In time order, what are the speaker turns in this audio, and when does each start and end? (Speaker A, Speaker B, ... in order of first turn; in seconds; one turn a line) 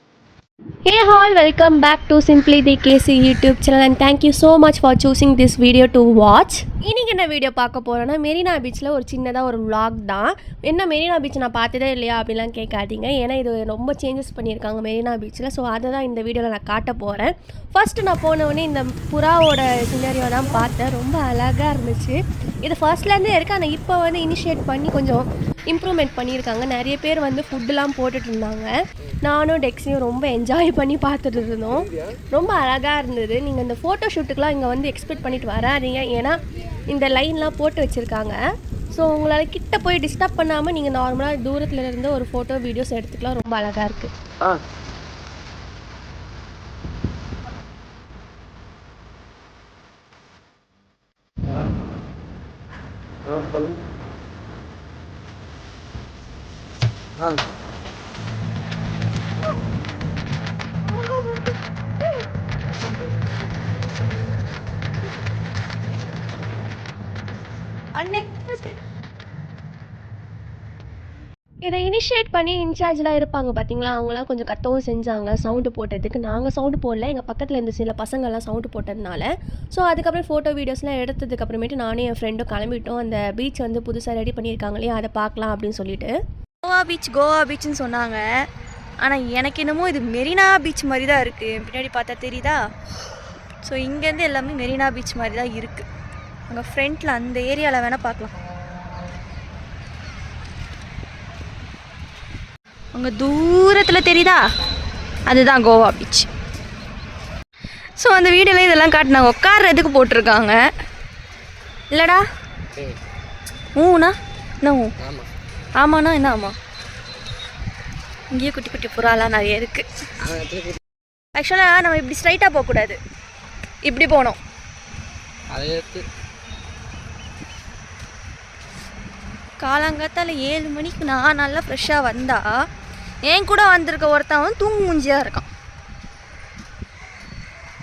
Speaker A: 0.9-28.7
Speaker A: 29.2-38.4
Speaker B: 31.9-32.2
Speaker A: 38.9-44.1
Speaker C: 68.0-68.6
Speaker A: 71.7-86.1
Speaker C: 86.6-88.2
Speaker C: 89.0-92.6
Speaker C: 93.6-95.9
Speaker C: 96.5-98.3
Speaker C: 102.9-104.4
Speaker C: 105.3-106.3
Speaker C: 108.0-110.6
Speaker C: 111.9-112.2
Speaker B: 112.7-113.0
Speaker C: 113.8-114.9
Speaker B: 115.0-115.3
Speaker C: 115.8-116.5
Speaker C: 118.3-119.9
Speaker B: 120.2-120.8
Speaker C: 121.3-123.0
Speaker C: 123.8-124.4
Speaker B: 125.5-126.0
Speaker C: 129.6-132.5
Speaker C: 133.2-135.5